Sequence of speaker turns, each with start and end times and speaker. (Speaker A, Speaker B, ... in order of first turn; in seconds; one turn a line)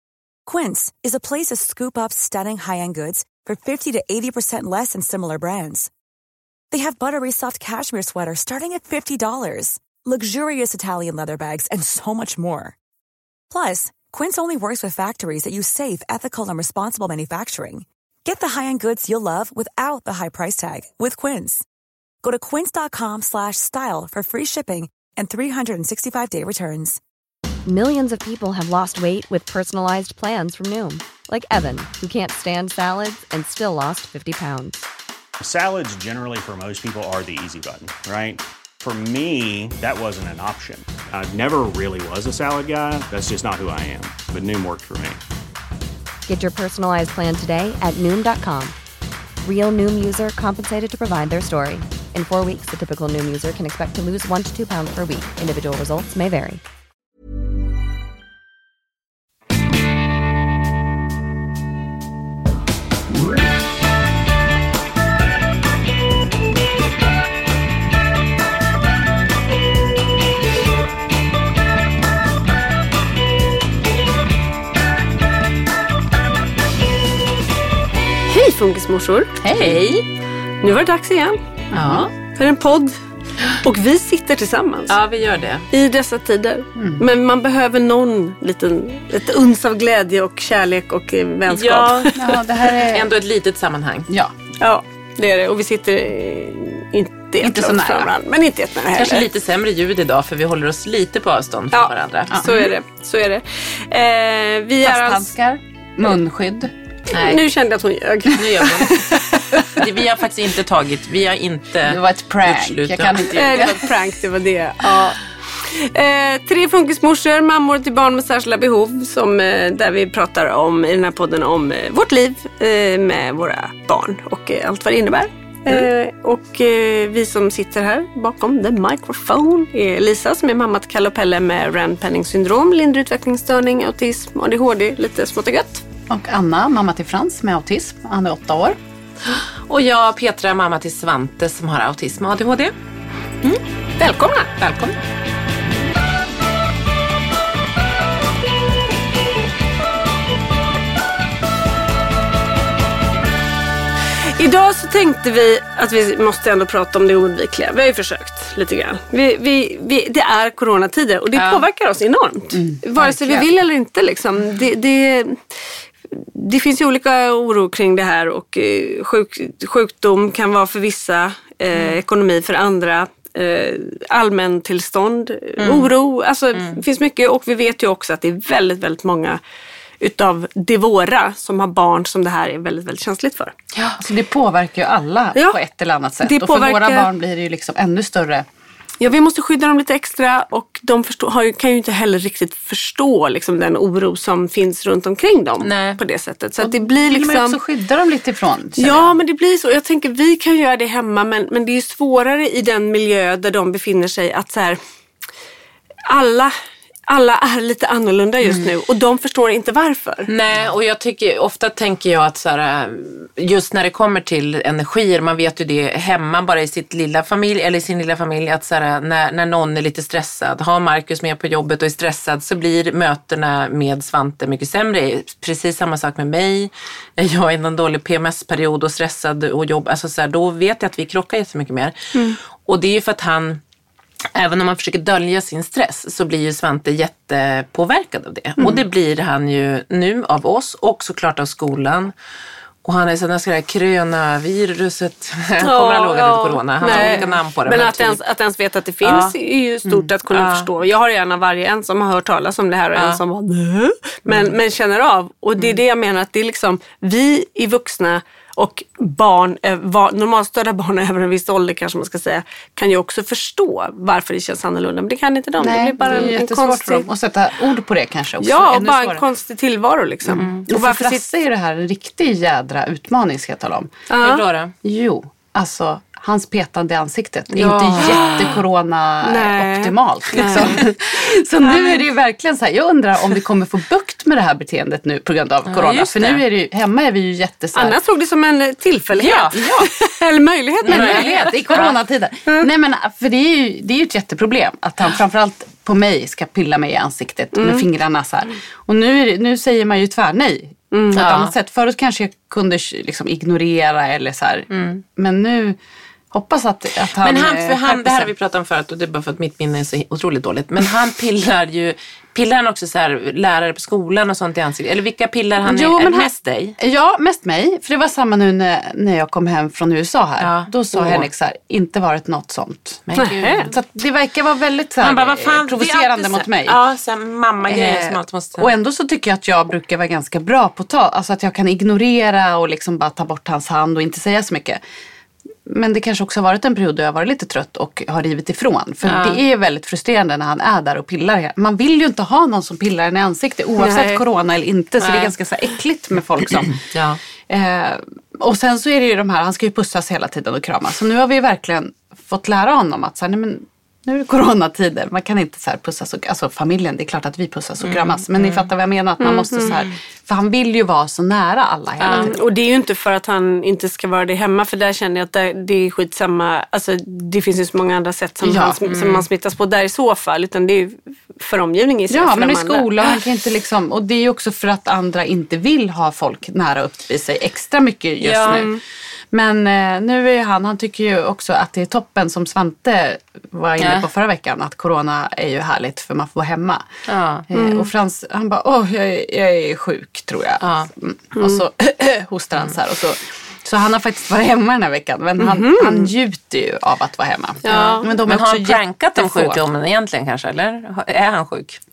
Speaker A: 0.5-5.9
Speaker A: 6.7-12.8
Speaker A: 13.5-21.6
Speaker A: 22.2-27.0
Speaker B: 27.7-34.8
Speaker C: 35.4-45.2
Speaker B: 46.3-48.8
Speaker B: 49.4-56.6
Speaker D: 78.3-79.4
Speaker E: 79.4-79.8
Speaker F: 79.5-80.0
Speaker D: 80.6-81.4
Speaker E: 81.7-82.1
Speaker F: 81.7-82.1
Speaker D: 82.3-83.0
Speaker D: 83.6-85.0
Speaker F: 84.9-85.7
Speaker D: 85.7-92.3
Speaker E: 86.8-87.0
Speaker F: 91.5-94.1
Speaker E: 92.2-93.1
Speaker E: 94.1-94.3
Speaker D: 94.6-99.3
Speaker E: 97.4-98.1
Speaker F: 98.9-102.5
Speaker D: 101.7-105.3
Speaker E: 102.3-102.7
Speaker E: 104.8-106.7
Speaker D: 107.1-109.6
Speaker F: 107.1-107.5
Speaker F: 108.3-113.6
Speaker E: 111.8-113.9
Speaker D: 113.3-135.8
Speaker E: 136.1-138.8
Speaker F: 139.3-142.7
Speaker D: 144.0-144.5
Speaker F: 144.6-145.0
Speaker D: 154.4-165.4
Speaker F: 161.3-161.6
Speaker E: 162.5-163.5
Speaker D: 166.1-179.4
Speaker F: 175.6-175.9
Speaker D: 180.0-183.5
Speaker F: 183.7-184.0
Speaker E: 184.0-188.5
Speaker D: 186.2-187.1
Speaker D: 189.0-197.6
Speaker F: 195.6-196.0
Speaker E: 196.6-199.1
Speaker D: 198.8-204.8
Speaker D: 206.1-206.5
Speaker D: 207.1-210.3
Speaker F: 210.3-233.6
Speaker F: 234.3-242.1
Speaker F: 242.8-248.2
Speaker D: 245.6-267.1
Speaker E: 246.8-247.3
Speaker F: 249.0-249.3
Speaker F: 250.3-250.7
Speaker F: 252.9-253.2
Speaker E: 265.6-269.2
Speaker D: 268.4-271.2
Speaker F: 270.4-270.6
Speaker E: 270.6-273.9
Speaker D: 274.1-274.4
Speaker F: 274.2-274.7
Speaker E: 274.8-288.0
Speaker F: 277.5-278.6
Speaker D: 278.1-278.5
Speaker D: 279.2-280.9
Speaker D: 281.6-282.0
Speaker F: 285.7-286.4
Speaker D: 287.8-291.8
Speaker F: 289.2-289.9
Speaker F: 290.8-292.0
Speaker E: 290.9-305.8
Speaker D: 297.6-297.9
Speaker D: 300.9-301.2
Speaker F: 301.1-301.5
Speaker F: 304.7-305.0
Speaker E: 306.3-308.3
Speaker F: 307.2-316.8
Speaker E: 315.6-323.0
Speaker F: 320.4-321.3
Speaker F: 323.1-323.8
Speaker D: 323.2-323.7
Speaker E: 323.7-326.8
Speaker F: 325.0-328.7
Speaker E: 327.7-334.8
Speaker E: 335.7-346.8
Speaker F: 339.1-339.4
Speaker D: 343.8-344.2
Speaker F: 345.0-345.3
Speaker F: 346.8-347.2
Speaker E: 347.5-362.4
Speaker F: 357.8-358.7
Speaker D: 359.2-359.7
Speaker F: 359.6-359.9
Speaker F: 362.0-362.4
Speaker D: 362.1-373.1
Speaker E: 368.4-368.8
Speaker F: 368.9-369.3
Speaker E: 372.1-378.7
Speaker F: 378.2-378.6
Speaker D: 378.5-378.8
Speaker E: 379.3-386.9
Speaker F: 383.8-384.1
Speaker F: 387.1-387.5
Speaker E: 387.5-399.6
Speaker D: 387.5-387.9
Speaker F: 390.6-390.9
Speaker D: 391.4-391.6
Speaker D: 395.4-396.1
Speaker D: 397.6-398.1
Speaker F: 397.7-401.8